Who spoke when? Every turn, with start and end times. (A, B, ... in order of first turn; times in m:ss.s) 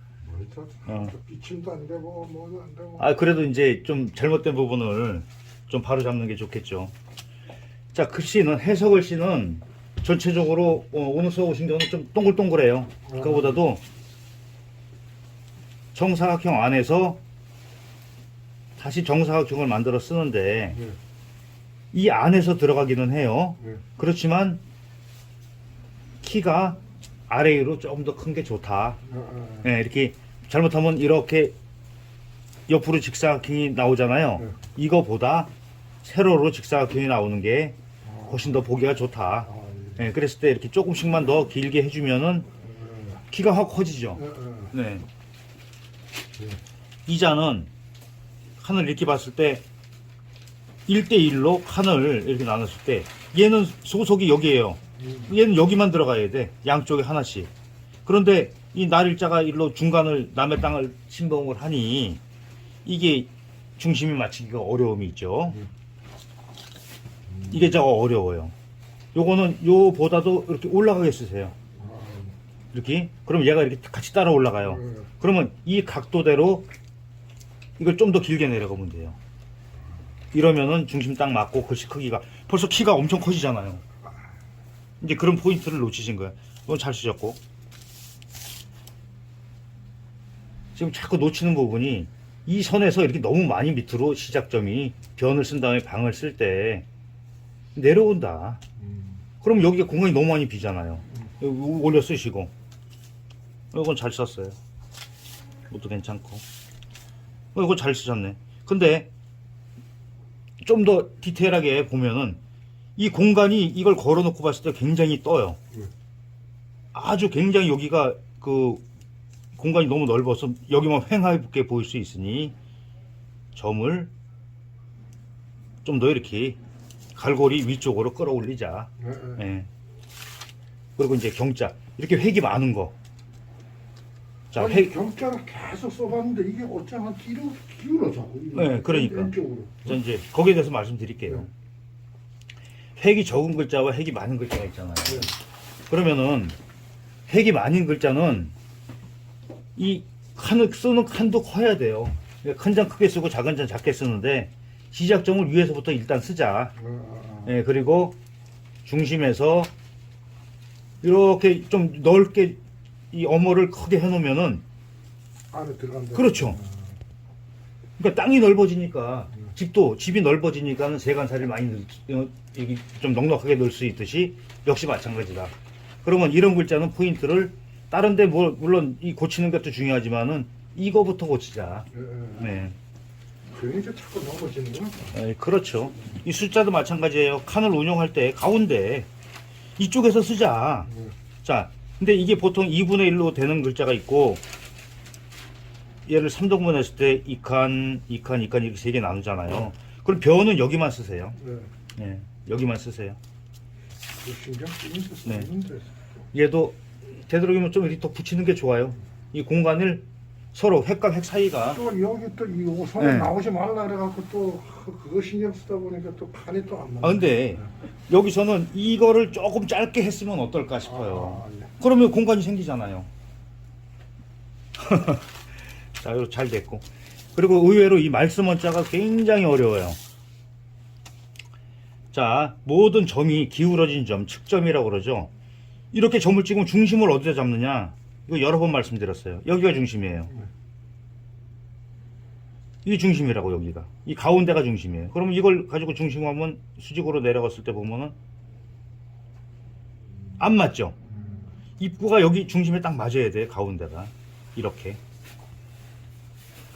0:00.3-0:03.0 A
0:00.9-0:01.2 B
0:03.0-0:06.9 B
0:07.9-0:13.8 B
0:13.2-0:13.5 A
0:15.9-0:17.2 B
0:18.8-0:20.8 B
0:21.9-0:24.6 B
0:26.2-0:29.0 B
0:29.1-0:29.6 A
0:29.6-0:31.6 B
0:32.7-0:35.5 B
0:36.0-0:42.5 B
0:39.5-0:40.0 A
0:42.8-0:43.1 A
0:43.3-0:45.1 B
0:44.2-0:44.6 A
0:47.1-0:47.7 B
0:48.6-0:49.6 B
0:50.9-0:57.5 B
0:58.0-1:02.2 B
1:02.8-1:05.6 B
1:07.5-1:08.5 B
1:09.1-1:11.6 B
1:11.8-1:12.3 A
1:12.7-1:16.7 B
1:17.8-1:19.2 B
1:20.3-1:23.8 B
1:25.0-1:27.4 B
1:30.8-1:36.9 B
1:37.8-1:38.6 B
1:39.4-1:42.5 B
1:43.7-1:44.6 B
1:45.7-1:46.4 B
1:47.5-1:49.1 B
1:50.6-1:52.4 B
1:53.0-1:55.6 B
1:56.9-1:58.8 B
1:59.6-2:02.6 B
2:03.6-2:04.1 B
2:05.8-2:06.6 B
2:07.2-2:09.7 B
2:09.0-2:09.4 A
2:11.0-2:12.9 B
2:14.5-2:15.0 B
2:14.6-2:19.9 A
2:18.5-2:21.5 B
2:23.0-2:25.4 B
2:25.9-2:26.6 B
2:27.3-2:28.5 B
2:29.8-2:36.8 B
2:36.8-2:37.5 A
2:37.4-2:38.2 B
2:38.8-2:39.7 B
2:41.0-2:42.6 B
2:43.1-2:44.6 B
2:45.5-2:46.7 A
2:46.1-2:46.6 B
2:48.0-2:55.5 B
2:56.0-3:02.8 B
3:01.9-3:02.4 A
3:03.5-3:05.1 A
3:05.1-3:09.1 B
3:09.8-3:14.4 B
3:16.1-3:21.4 B
3:22.0-3:23.2 B
3:24.2-3:25.9 A
3:25.2-3:25.5 B
3:26.3-3:31.9 B
3:31.8-3:37.1 A
3:33.0-3:33.4 B
3:37.0-3:43.1 B
3:41.1-3:41.6 A
3:44.8-3:45.3 B
3:46.0-3:50.0 B
3:52.1-3:55.3 B
3:55.9-4:00.4 B
4:02.8-4:08.2 B
4:10.4-4:11.0 B
4:11.8-4:15.0 B